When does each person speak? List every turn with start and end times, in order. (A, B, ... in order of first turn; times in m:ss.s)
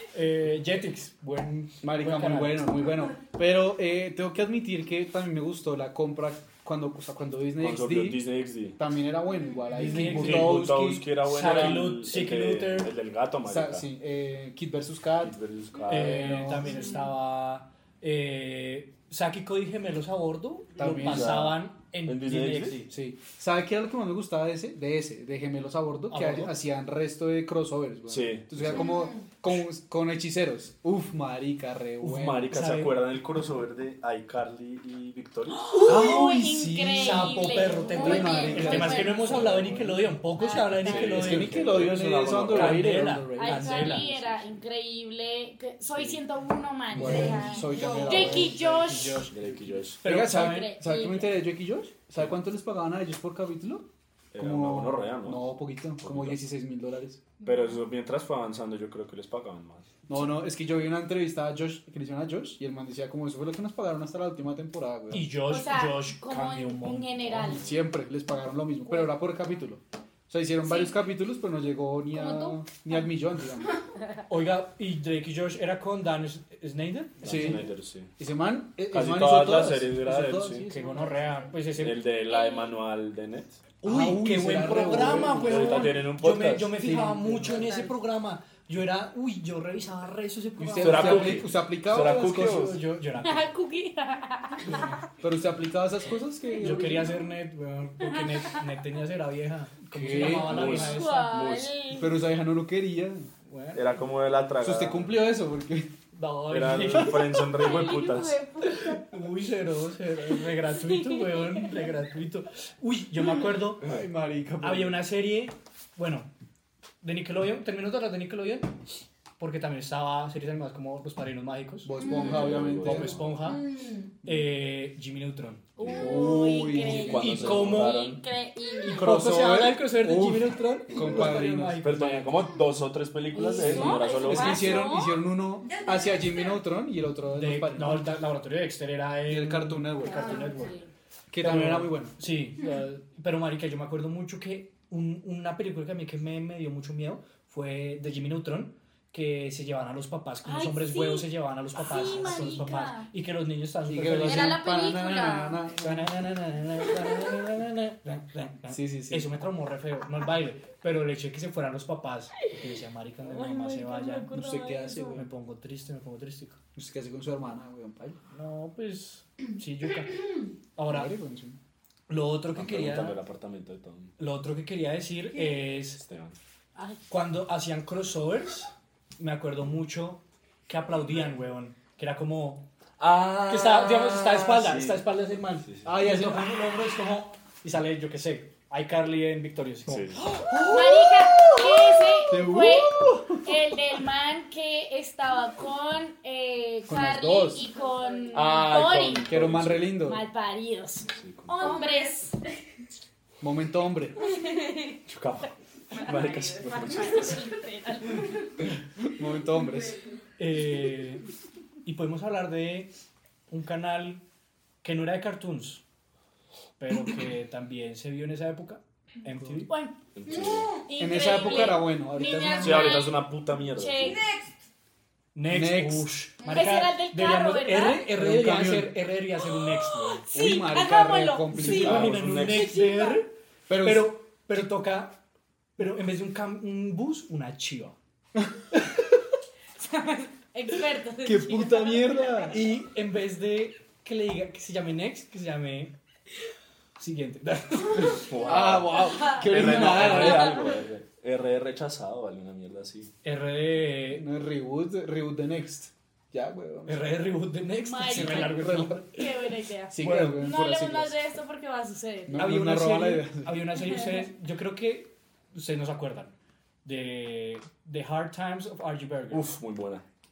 0:00.1-0:02.7 A
0:01.8-0:08.2 B
0:07.6-0:08.8 C
0:08.8-0:11.1 B
0:09.7-0:12.9 A
0:10.0-0:13.9 C
0:13.5-0:16.9 B
0:15.2-0:16.6 C
0:15.9-0:22.9 A
0:20.8-0:21.5 B
0:20.8-0:22.8 C
0:22.9-0:32.6 B
0:26.1-0:26.5 A
0:28.1-0:28.9 C
0:32.0-0:35.8 C
0:32.5-0:33.0 A
0:35.7-0:39.6 D
0:35.7-0:36.4 A
0:35.8-0:40.0 B
0:37.0-0:41.6 A
0:40.4-0:41.0 D
0:40.8-0:43.2 C
0:40.9-0:44.1 B
0:42.5-0:44.1 A
0:43.3-0:49.3 D
0:46.9-0:57.3 B
0:48.1-0:49.4 A
0:49.3-0:50.0 C
0:50.0-0:50.8 A
0:50.3-0:51.4 D
0:54.3-0:56.4 C
0:57.4-0:59.9 C
1:00.1-1:05.3 B
1:05.1-1:07.6 A
1:05.5-1:07.6 D
1:07.4-1:13.8 B
1:10.6-1:11.0 D
1:12.1-1:13.0 D
1:14.3-1:17.6 A
1:17.2-1:18.1 C
1:17.2-1:17.7 B
1:18.2-1:21.1 B
1:18.9-1:20.7 C
1:20.6-1:22.0 A
1:21.8-1:23.6 C
1:22.3-1:22.7 D
1:23.8-1:31.5 A
1:23.8-1:25.9 B
1:25.2-1:26.8 C
1:26.8-1:27.9 B
1:30.6-1:32.7 B
1:30.8-1:32.8 C
1:32.3-1:33.5 A
1:33.2-1:35.0 D
1:35.2-1:37.1 B
1:36.6-1:41.4 A
1:39.9-1:40.8 B
1:40.2-1:41.7 C
1:40.6-1:42.2 D
1:41.9-1:43.3 B
1:43.5-1:44.0 A
1:43.7-1:45.2 C
1:44.6-1:45.9 B
1:46.1-1:47.3 A
1:46.5-1:48.4 C
1:47.4-1:49.1 D
1:48.7-1:53.9 A
1:50.7-1:51.9 D
1:53.8-1:55.0 B
1:54.6-1:56.3 A
1:57.0-1:58.8 A
1:59.4-2:03.7 A
2:01.8-2:03.2 B
2:02.0-2:03.2 C
2:03.6-2:04.1 D
2:04.2-2:05.7 A
2:05.8-2:09.1 D
2:05.8-2:07.7 B
2:05.8-2:08.2 C
2:07.2-2:08.1 A
2:08.8-2:12.0 B
2:08.8-2:12.4 A
2:11.8-2:14.9 C
2:13.3-2:15.3 D
2:13.6-2:18.2 B
2:17.3-2:20.8 A
2:19.3-2:20.5 B
2:20.0-2:20.9 D
2:21.3-2:22.2 B
2:21.4-2:34.6 A
2:30.4-2:33.1 D
2:33.9-2:36.1 B
2:34.2-2:35.6 D
2:35.8-2:44.3 A
2:38.7-2:39.3 B
2:43.2-2:45.2 D
2:44.3-2:45.3 B
2:45.2-2:46.6 A
2:46.8-2:48.2 B
2:48.3-2:51.1 A
2:50.9-2:51.6 B
2:52.1-2:53.2 A
2:52.6-2:54.1 C
2:54.2-2:56.0 A
2:56.0-2:56.4 C
2:57.1-3:02.7 A
3:03.0-3:05.1 C
3:03.4-3:10.2 A
3:05.6-3:05.9 C
3:05.8-3:06.6 B
3:09.9-3:10.3 C
3:10.2-3:13.5 B
3:10.6-3:19.3 D
3:16.9-3:17.7 B
3:18.3-3:20.0 C
3:19.2-3:20.2 B
3:20.0-3:22.4 D
3:21.1-3:21.8 C
3:23.4-3:24.2 B
3:24.2-3:25.0 D
3:25.1-3:27.5 C
3:25.9-3:28.5 D
3:29.1-3:30.0 B
3:30.4-3:31.3 A
3:31.8-3:32.9 A
3:33.5-3:34.2 A
3:34.8-3:35.8 A
3:36.8-3:39.7 A
3:39.7-3:44.3 D
3:40.2-3:40.8 C
3:41.0-3:43.1 B
3:42.6-3:44.4 C
3:45.4-3:50.2 A
3:45.5-3:46.1 B
3:46.5-3:48.1 D
3:48.1-3:49.0 B
3:49.6-3:53.2 D
3:50.3-3:52.4 B
3:51.5-3:55.2 A
3:51.8-3:52.7 C
3:53.7-3:54.1 B
3:55.8-3:58.0 A
3:59.8-4:02.5 D
4:01.2-4:02.6 B
4:02.5-4:06.0 A
4:07.0-4:08.2 A
4:08.0-4:13.1 C
4:08.3-4:10.6 D
4:08.4-4:10.7 B
4:09.9-4:10.3 A
4:13.2-4:14.2 A
4:14.1-4:17.3 B
4:16.9-4:19.3 A
4:17.8-4:22.4 D
4:18.0-4:19.0 B
4:19.9-4:21.2 B
4:20.0-4:20.4 A
4:22.3-4:23.8 B
4:22.4-4:26.3 A
4:26.8-4:29.5 A
4:29.3-4:30.0 C